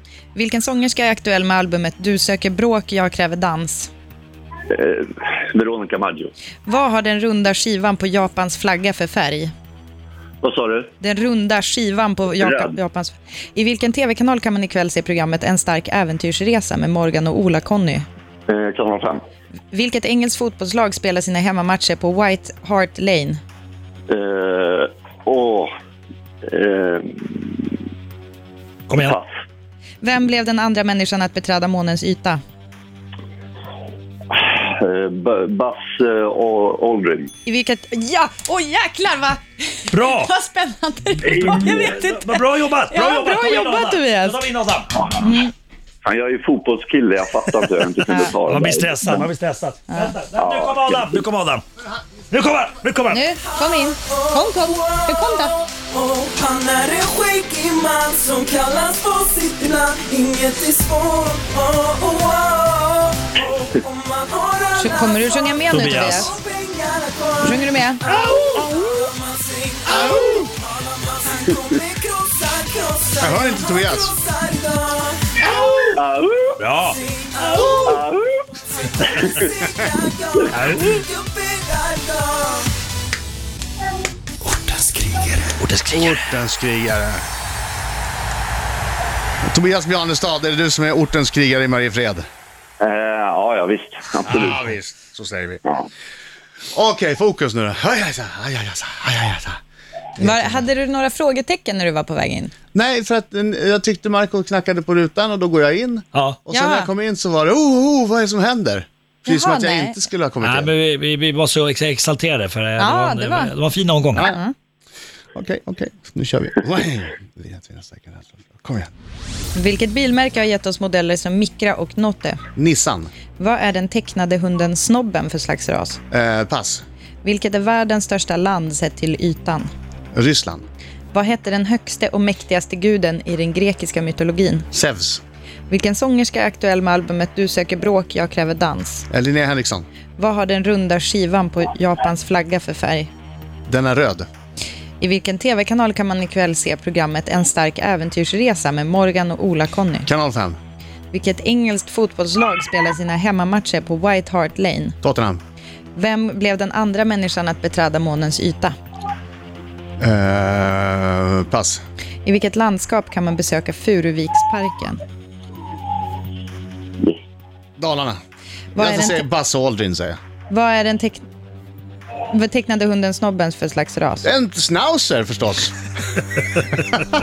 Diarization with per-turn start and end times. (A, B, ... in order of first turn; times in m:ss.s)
0:00.3-0:03.9 A
0:04.7-0:06.3 B
0:06.6-0:09.5 A
0:10.4-0:10.9 B
0:11.0-0:18.1 A
0:12.4-0:12.8 B
0:18.5-0:19.2 B
0:19.7-0:23.4 A
0:24.1-0:25.7 B
0:26.4-0:27.8 B
0:28.9-0:29.2 C
0:29.0-0:29.2 B
0:30.0-0:32.4 A
0:34.3-0:37.3 B
0:37.4-0:44.5 A
0:39.9-0:40.3 C
0:41.2-0:45.0 C
0:41.2-0:41.9 B
0:45.2-0:45.5 A
0:46.0-0:49.3 B
0:48.4-0:51.6 C
0:49.9-0:50.1 A
0:50.3-0:51.2 B
0:52.3-0:53.2 C
0:53.1-0:55.6 A
0:53.5-1:16.0 D
1:04.8-1:06.3 A
1:05.7-1:06.3 C
1:07.4-1:08.0 A
1:08.1-1:08.6 E
1:09.9-1:10.5 E
1:13.2-1:14.1 E
1:15.9-1:16.6 B
1:16.6-1:17.8 C
1:16.8-1:18.0 D
1:17.8-1:18.3 B
1:18.7-1:22.7 D
1:19.0-1:19.5 B
1:20.5-1:21.0 C
1:24.4-1:26.3 C
1:25.9-1:27.2 E
1:29.4-1:32.2 E
1:32.8-1:34.6 B
1:34.2-1:35.6 E
1:36.7-1:39.6 E
1:40.2-1:40.6 E
1:40.2-1:42.5 A
1:42.7-1:50.7 E
1:46.1-1:46.4 C
1:46.5-1:46.9 A
1:49.2-1:50.0 A
1:50.4-1:54.3 C
1:52.8-1:53.5 A
1:54.1-1:54.4 E
1:54.2-1:54.5 A
1:55.3-1:58.9 E
1:59.5-2:02.4 A
2:02.6-2:03.1 E
2:03.4-2:06.0 A
2:06.1-2:06.8 E
2:07.2-2:09.7 A
2:10.1-2:10.6 E
2:11.1-2:14.7 A
2:14.7-2:15.2 E
2:15.7-2:19.0 A
2:19.1-2:19.9 E
2:20.2-2:23.1 A
2:23.7-2:24.3 E
2:25.0-2:30.1 A
2:30.0-2:30.6 E
2:31.1-2:35.0 A
2:35.0-2:35.4 E
2:35.9-2:38.7 A
2:40.0-2:41.8 E
2:42.2-2:45.0 A
2:47.8-2:48.2 E
2:48.7-2:49.2 A
2:48.8-2:50.2 E
2:50.5-2:51.2 A
2:52.3-2:54.3 A
2:54.2-2:55.7 E